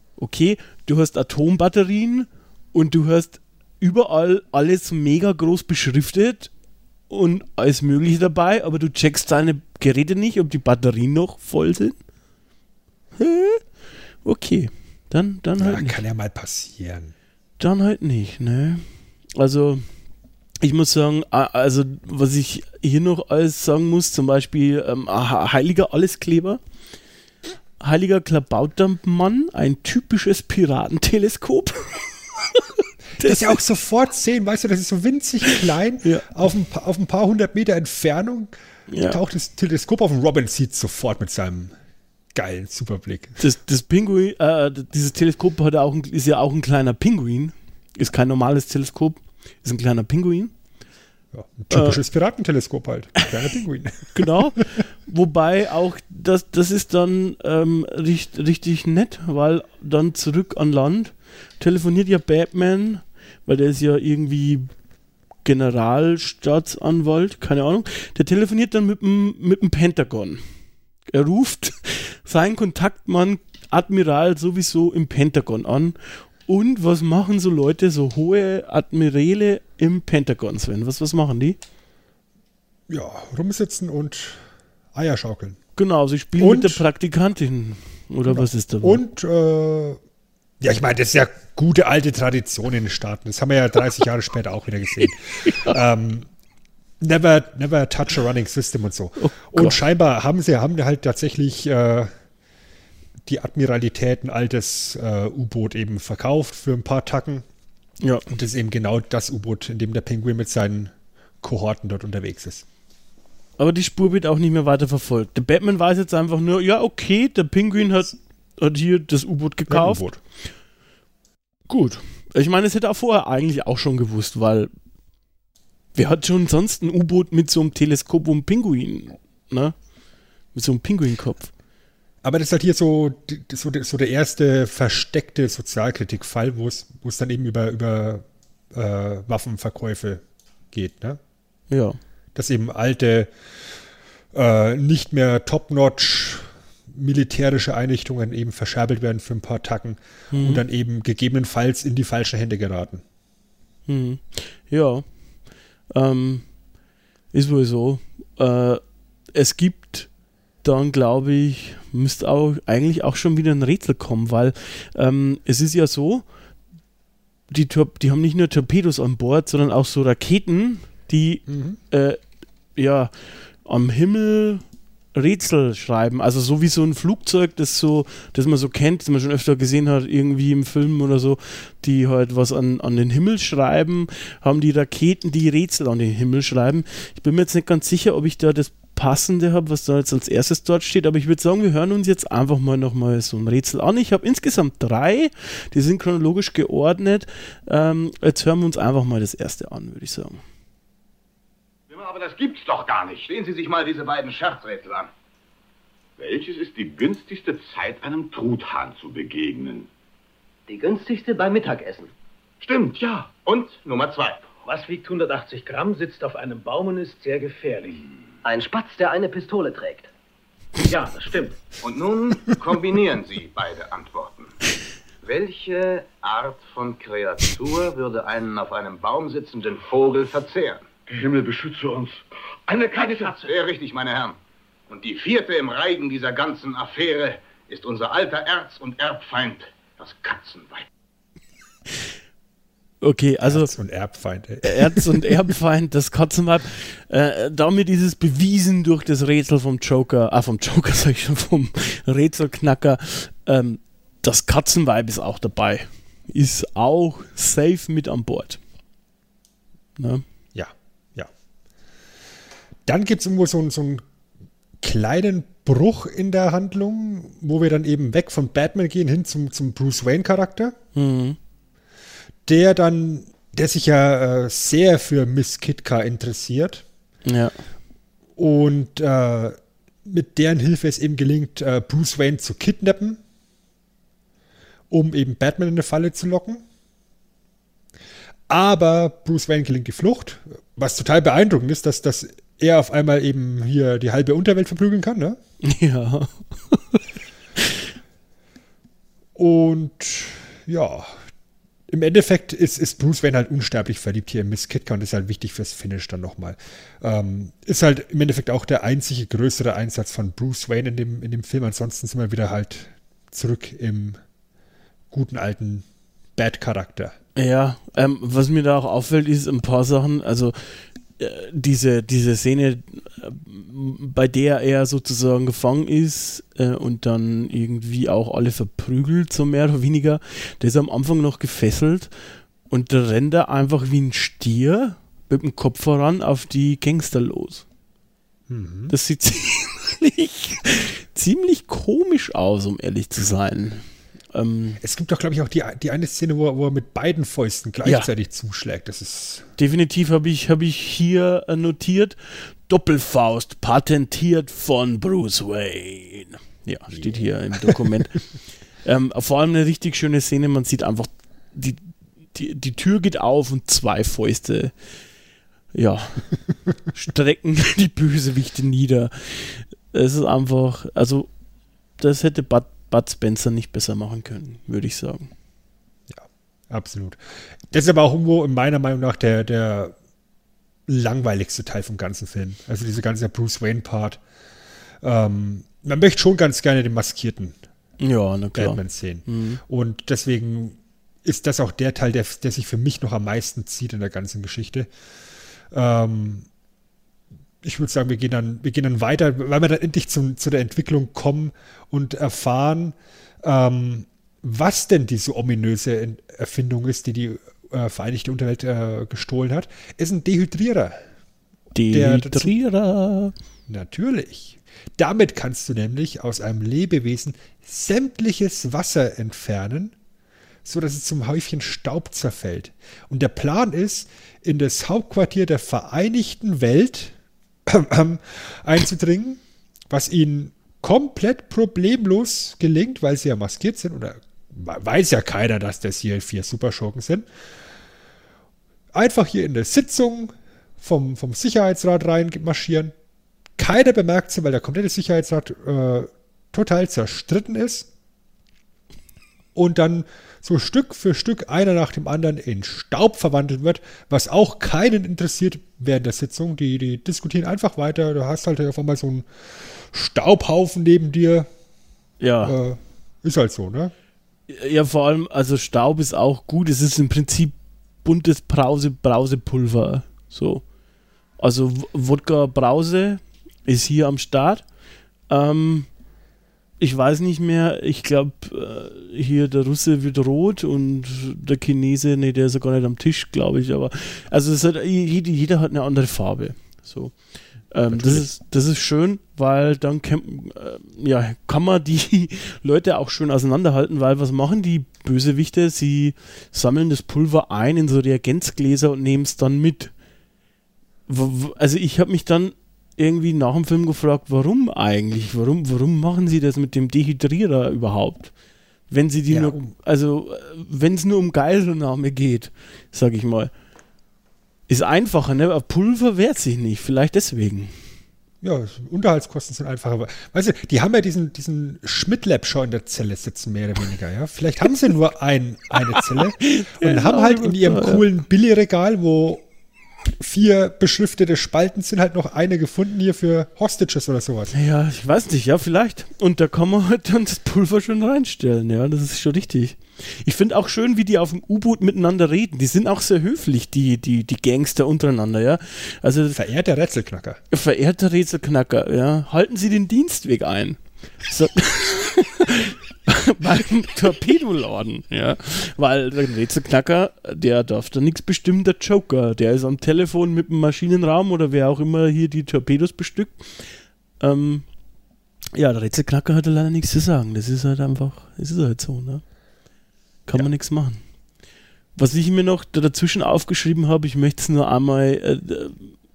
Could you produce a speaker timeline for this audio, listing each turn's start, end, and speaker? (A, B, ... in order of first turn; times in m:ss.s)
0:00.2-0:06.5 A
0:07.1-0:12.0 A
0:13.2-0:13.6 A
0:14.2-0:16.0 A
0:15.6-0:17.1 B
0:17.6-0:18.8 A
0:19.4-0:19.9 A
0:20.6-0:26.6 A
0:27.8-0:33.6 A
0:33.2-0:41.8 B
0:35.5-0:36.3 A
0:38.9-0:39.2 A
0:42.3-0:43.4 B
0:43.4-0:50.5 A
0:51.3-0:54.6 B
0:51.7-0:52.0 A
0:54.1-1:04.7 A
1:05.4-1:10.4 A
1:11.1-1:21.6 A
1:22.9-1:24.4 B
1:24.9-1:25.6 B
1:25.8-1:29.0 A
1:26.4-1:26.8 B
1:28.3-1:30.0 B
1:30.6-1:36.3 B
1:35.0-1:35.8 A
1:37.0-1:42.1 B
1:39.2-1:39.8 A
1:43.3-1:47.4 B
1:48.0-1:48.3 A
1:48.3-1:52.6 B
1:53.6-2:00.1 A
1:59.7-2:00.2 B
2:01.7-2:04.7 A
2:06.0-2:09.7 A
2:10.5-2:11.5 A
2:12.2-2:21.2 B
2:21.7-2:22.0 A
2:22.4-2:23.3 B
2:24.3-2:33.0 B
2:30.3-2:30.6 A
2:33.9-2:35.0 A
2:35.9-2:36.5 A
2:37.3-2:38.8 A
2:39.3-2:40.1 A
2:40.6-2:46.2 A
2:47.5-2:52.2 A
2:51.5-2:51.8 B
2:52.8-2:53.1 A
2:53.6-2:54.6 A
2:55.2-3:20.4 A
3:21.9-3:25.1 C
3:26.2-3:29.9 D
3:30.7-3:32.1 E
3:32.6-3:34.5 C
3:34.6-3:38.1 F
3:38.4-3:40.1 E
3:40.8-3:41.6 F
3:41.8-3:44.6 C
3:45.2-3:50.9 C
3:51.1-3:52.2 D
3:52.7-3:53.3 D
3:52.8-3:53.5 F
3:53.1-3:54.4 C
3:54.9-4:00.9 C
4:03.0-4:03.7 A
4:03.4-4:05.5 B
4:04.6-4:18.6 A
4:20.0-4:20.2 A
4:20.5-4:21.3 B
4:22.9-4:24.0 B
4:24.8-4:30.8 B
4:31.0-4:31.4 A
4:32.5-4:36.8 B
4:37.3-4:37.6 A
4:38.4-4:43.2 B
4:44.9-4:46.6 B
4:48.5-4:55.4 B
4:55.6-4:57.0 A
4:59.4-5:01.1 B
5:01.9-5:14.2 B
5:15.1-5:17.2 B
5:17.4-5:32.1 A
5:32.7-5:37.6 A
5:38.5-5:38.9 B
5:38.9-5:44.8 A
5:44.8-5:49.5 B
5:47.8-5:48.1 A
5:49.6-5:58.2 A
5:56.9-5:57.8 B
5:58.8-6:04.7 A
6:05.7-6:06.3 A
6:06.9-6:11.3 A
6:12.0-6:15.3 A
6:16.1-6:17.2 B
6:17.7-6:19.9 B
6:20.9-6:24.2 B
6:25.0-6:27.6 B
6:28.0-6:29.6 A
6:28.6-6:34.9 B
6:35.7-6:36.5 B
6:37.6-6:51.0 B
6:51.7-6:53.3 A
6:51.9-6:52.5 B
6:53.7-6:59.9 B
7:00.6-7:07.1 B
7:07.7-7:17.3 B
7:18.9-7:22.9 B
7:23.6-7:27.9 B
7:29.6-7:39.3 B
7:39.8-7:41.5 B
7:42.2-7:42.6 A
7:42.4-7:43.9 B
7:44.5-7:50.6 A
7:51.4-7:54.6 A
7:55.3-7:55.9 A
7:56.8-8:07.2 A
8:07.7-8:19.9 A
8:07.8-8:08.3 B
8:21.1-8:28.3 A
8:28.9-8:33.5 A
8:29.3-8:29.7 B
8:34.7-8:37.8 A
8:38.4-8:49.4 B
8:46.0-8:48.0 A
8:50.2-8:54.5 B
8:54.5-9:06.4 A
9:06.3-9:07.4 B
9:07.5-9:23.5 A
9:24.2-9:24.6 A
9:25.5-9:29.2 A
9:30.3-9:31.0 A
9:32.0-9:35.9 A